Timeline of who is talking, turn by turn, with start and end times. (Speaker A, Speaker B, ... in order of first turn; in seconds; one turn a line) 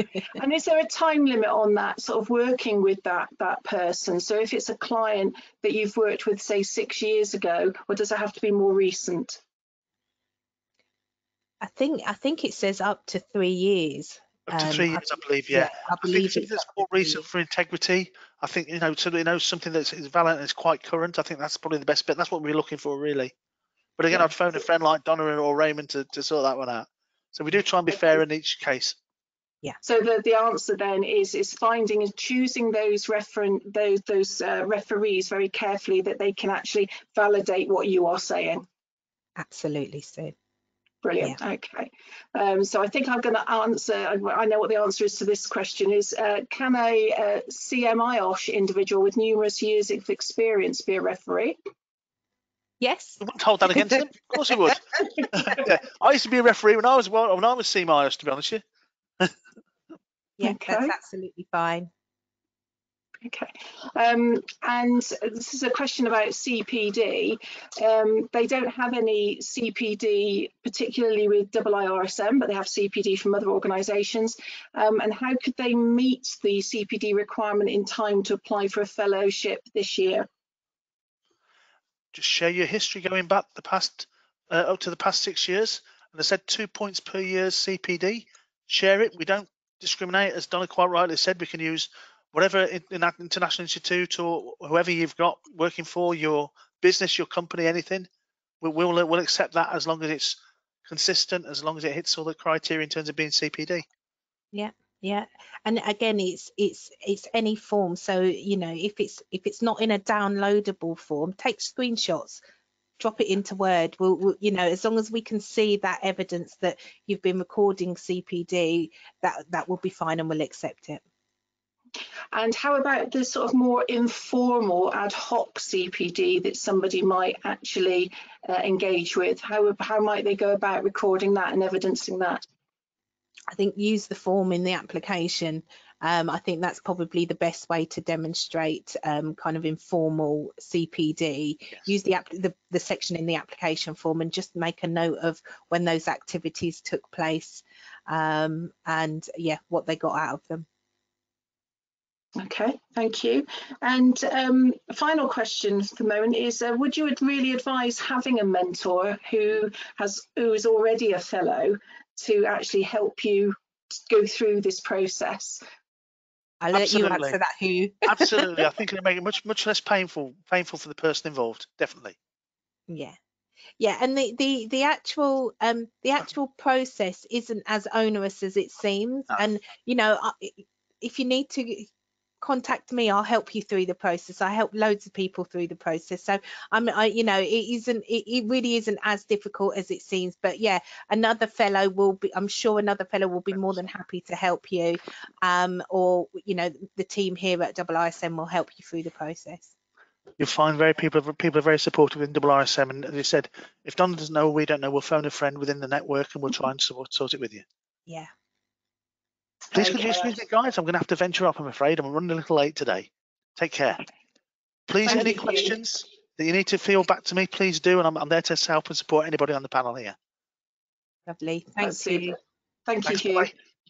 Speaker A: 0.3-9.4
Speaker B: 11.6-17.3
Speaker C: 14.5-23.3
Speaker C: 24.0-29.0
Speaker A: 29.8-38.7
Speaker B: 39.4-40.3
Speaker A: 41.0-51.6
Speaker B: 52.8-53.2
Speaker C: 53.2-58.6
Speaker B: 53.7-54.0
Speaker B: 60.4-61.9
Speaker A: 60.4-60.9
Speaker A: 63.2-80.3
Speaker C: 82.1-98.1
Speaker C: 98.6-103.8
Speaker B: 104.5-112.4
Speaker B: 113.0-121.0
Speaker A: 122.3-132.4
Speaker B: 133.5-150.7
Speaker A: 152.4-165.6
Speaker B: 166.6-168.5
Speaker C: 166.7-167.4
Speaker C: 168.0-172.2
Speaker B: 172.9-173.2
Speaker B: 173.8-181.9
Speaker B: 182.4-199.7
Speaker C: 200.4-207.7
Speaker A: 209.7-210.4
Speaker C: 209.7-214.0
Speaker C: 214.9-220.2
Speaker A: 215.1-215.7
Speaker B: 221.3-222.4
Speaker A: 221.8-222.4
Speaker A: 222.9-223.5
Speaker C: 223.1-223.5